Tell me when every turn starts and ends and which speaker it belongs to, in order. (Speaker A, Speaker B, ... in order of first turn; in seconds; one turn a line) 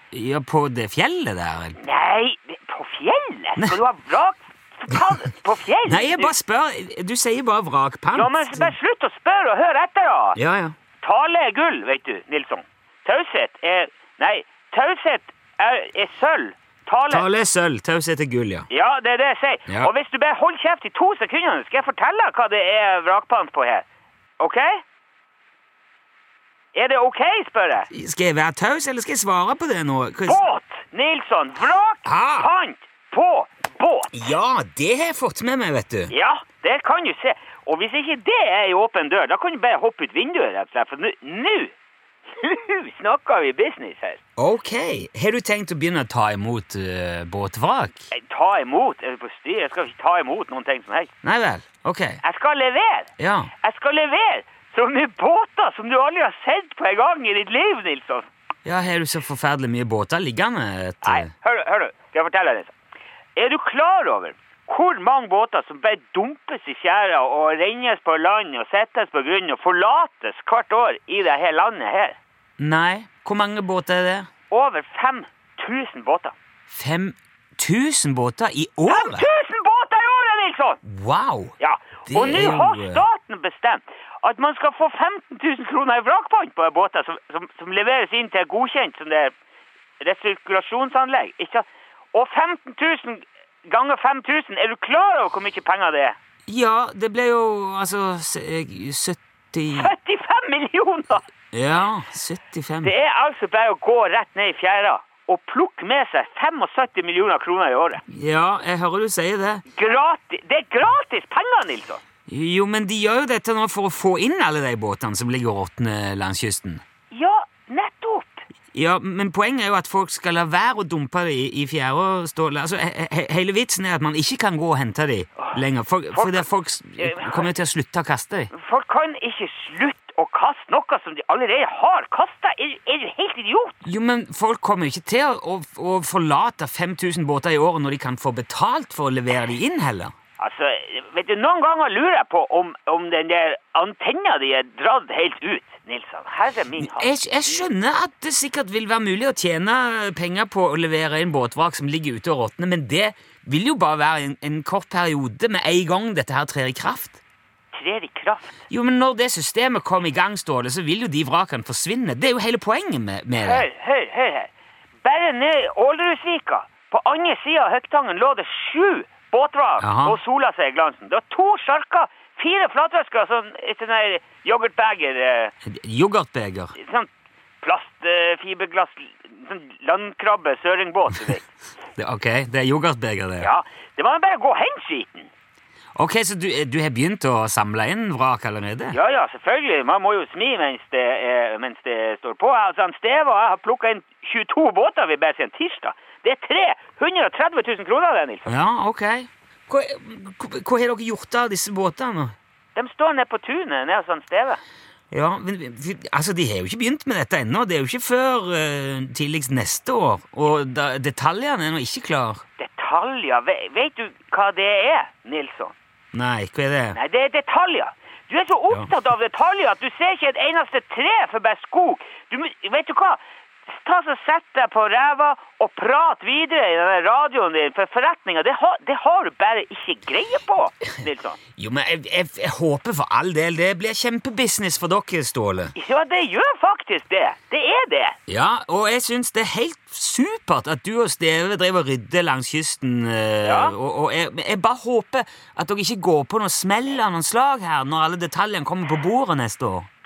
Speaker A: 0.1-1.8
Speaker B: 1.8-6.3
Speaker A: 5.8-8.7
Speaker B: 8.1-10.4
Speaker A: 10.3-10.7
Speaker B: 11.0-17.3
Speaker A: 17.1-18.7
Speaker B: 18.7-23.8
Speaker B: 24.4-24.8
Speaker B: 26.7-27.9
Speaker A: 27.9-30.4
Speaker B: 30.2-34.3
Speaker A: 32.0-32.5
Speaker A: 34.1-36.1
Speaker B: 36.1-41.7
Speaker B: 42.3-44.2
Speaker A: 44.4-48.1
Speaker B: 48.1-51.1
Speaker A: 51.2-52.2
Speaker B: 52.2-58.3
Speaker A: 53.2-53.5
Speaker A: 58.6-61.3
Speaker B: 61.0-62.7
Speaker B: 63.3-72.2
Speaker A: 72.6-74.3
Speaker B: 74.5-76.3
Speaker A: 76.7-79.3
Speaker B: 78.8-80.8
Speaker A: 80.8-81.5
Speaker B: 81.6-89.3
Speaker A: 82.0-83.0
Speaker B: 90.0-96.2
Speaker A: 96.5-99.9
Speaker B: 99.7-101.2
Speaker A: 101.5-102.9
Speaker B: 102.8-108.0
Speaker A: 108.1-109.6
Speaker B: 109.7-112.0
Speaker A: 112.3-116.8
Speaker B: 117.1-118.4
Speaker A: 118.7-128.5
Speaker B: 126.1-126.5
Speaker B: 127.0-127.5
Speaker B: 128.5-133.8
Speaker A: 133.8-140.1
Speaker B: 140.4-147.7
Speaker A: 146.8-157.2
Speaker B: 157.7-158.6
Speaker A: 158.7-163.7
Speaker B: 163.4-164.5
Speaker B: 165.0-175.5
Speaker A: 169.8-170.2
Speaker A: 175.7-176.7
Speaker B: 176.7-177.1
Speaker B: 177.6-181.4
Speaker A: 182.0-183.5
Speaker B: 183.4-185.3
Speaker A: 185.9-189.0
Speaker B: 188.9-198.6
Speaker A: 198.4-202.3
Speaker B: 202.7-204.6
Speaker A: 205.1-212.4
Speaker B: 212.6-215.7
Speaker A: 216.1-217.0
Speaker B: 216.9-231.4
Speaker A: 231.6-235.7
Speaker B: 235.7-238.2
Speaker A: 238.3-249.9
Speaker B: 243.4-243.7